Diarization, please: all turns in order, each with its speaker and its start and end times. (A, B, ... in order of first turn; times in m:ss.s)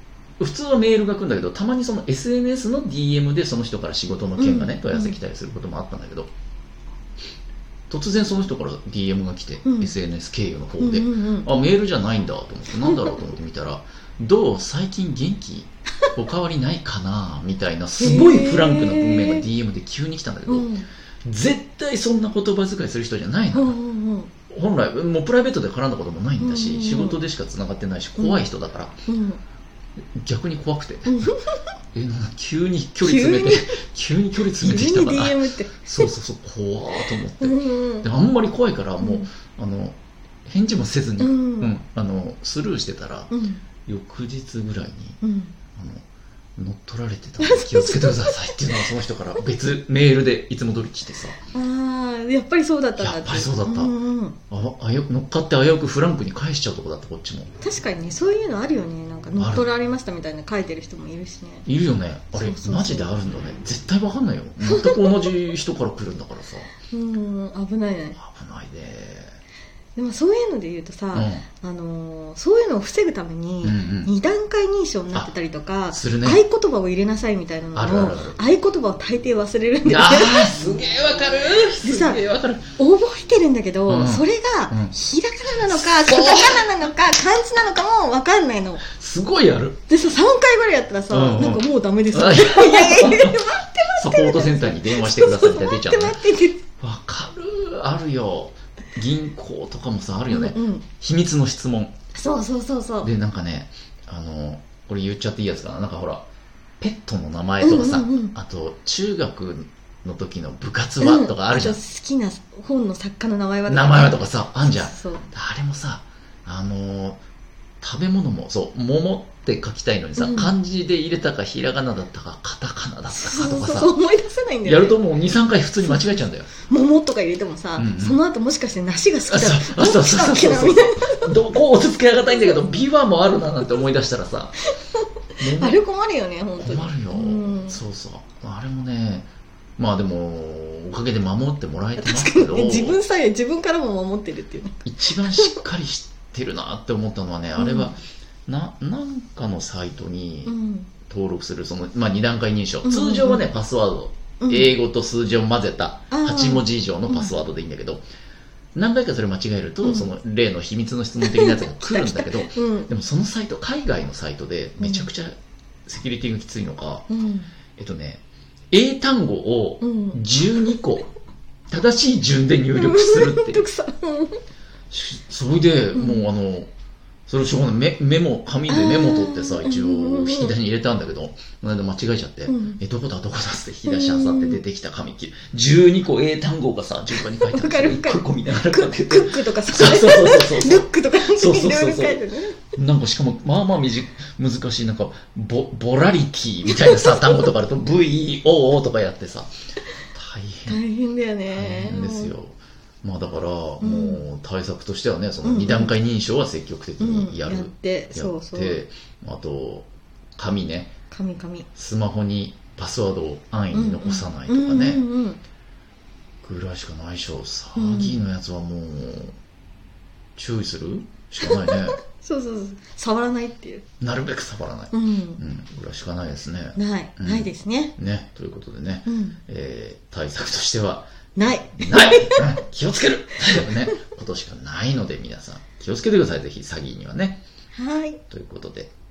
0:00.4-0:06.3 A
0:04.4-0:05.2 B
0:07.9-0:20.7 A
0:09.6-0:09.9 B
0:10.8-0:11.5 B
0:12.8-0:13.1 B
0:18.0-0:19.4 B
0:20.5-0:20.9 B
0:21.2-0:23.8 A
0:23.5-0:24.3 B
0:24.5-0:28.9 A
0:26.4-0:27.2 B
0:28.2-0:28.5 B
0:29.1-0:29.4 B
0:30.2-0:31.3 A
0:31.1-0:31.6 B
0:31.9-0:43.3 A
0:33.0-0:33.8 B
0:34.6-0:36.1 B
0:37.0-0:38.1 B
0:39.0-0:39.3 B
0:41.2-0:41.7 B
0:43.3-0:43.6 B
0:43.8-0:45.2 A
0:45.2-0:45.5 B
0:45.7-0:46.0 A
0:46.6-0:51.4 A
0:47.4-0:48.9 B
0:51.5-0:54.4 B
0:53.0-0:53.9 A
0:54.5-0:57.5 A
0:57.6-1:01.6 B
0:59.4-0:59.6 A
1:01.6-1:06.7 A
1:02.3-1:03.1 B
1:04.6-1:05.5 B
1:06.9-1:08.2 B
1:08.2-1:09.4 A
1:10.0-1:20.5 B
1:11.1-1:11.4 A
1:13.6-1:14.1 A
1:15.9-1:16.4 A
1:17.7-1:18.4 A
1:19.8-1:22.7 A
1:21.8-1:22.2 B
1:22.8-1:28.8 B
1:23.9-1:24.9 A
1:25.5-1:26.9 A
1:28.9-1:29.8 A
1:29.9-1:36.6 B
1:31.1-1:33.4 A
1:33.9-1:36.2 A
1:36.8-1:41.9 A
1:40.3-1:40.8 B
1:42.1-1:43.1 B
1:43.0-1:46.2 A
1:46.8-1:51.8 A
1:47.6-1:48.3 B
1:51.0-1:55.3 B
1:53.7-1:57.2 A
1:57.8-2:03.9 A
2:00.2-2:00.5 B
2:03.1-2:05.0 B
2:04.6-2:06.5 A
2:05.8-2:11.4 B
2:07.8-2:08.2 A
2:09.3-2:14.6 A
2:12.3-2:12.6 B
2:15.4-2:15.8 A
2:15.4-2:17.8 B
2:16.6-2:23.0 A
2:22.0-2:25.5 B
2:24.8-2:38.0 A
2:27.6-2:27.9 B
2:30.4-2:30.9 B
2:32.8-2:33.5 B
2:34.4-2:34.8 B
2:36.1-2:37.3 B
2:38.7-2:47.1 A
2:39.8-2:40.1 B
2:41.2-2:42.9 B
2:44.8-2:45.1 B
2:47.1-2:47.5 B
2:47.7-2:51.1 A
2:49.8-2:50.8 B
2:51.7-2:53.6 A
2:52.7-2:54.4 B
2:54.9-2:56.7 A
2:55.9-2:56.3 B
2:57.3-3:19.5 A
2:58.7-3:00.6 B
3:02.5-3:02.8 B
3:03.8-3:04.6 B
3:07.3-3:12.7 B
3:16.6-3:17.5 B
3:20.1-3:20.8 A
3:20.7-3:22.3 B
3:21.5-3:30.9 A
3:23.8-3:24.2 B
3:25.4-3:25.9 B
3:27.0-3:28.8 B
3:31.1-3:31.7 B
3:31.7-3:35.0 A
3:33.7-3:35.4 B
3:36.4-3:39.4 A
3:37.7-3:38.2 B
3:40.4-3:42.0 A
3:41.4-3:43.8 B
3:44.0-3:51.1 A
3:44.9-3:45.4 B
3:46.8-3:47.9 B
3:49.1-3:49.4 B
3:51.4-3:52.6 B
3:51.7-3:57.4 A
3:53.5-3:53.9 B
3:57.7-3:58.2 B
3:58.3-3:58.9 A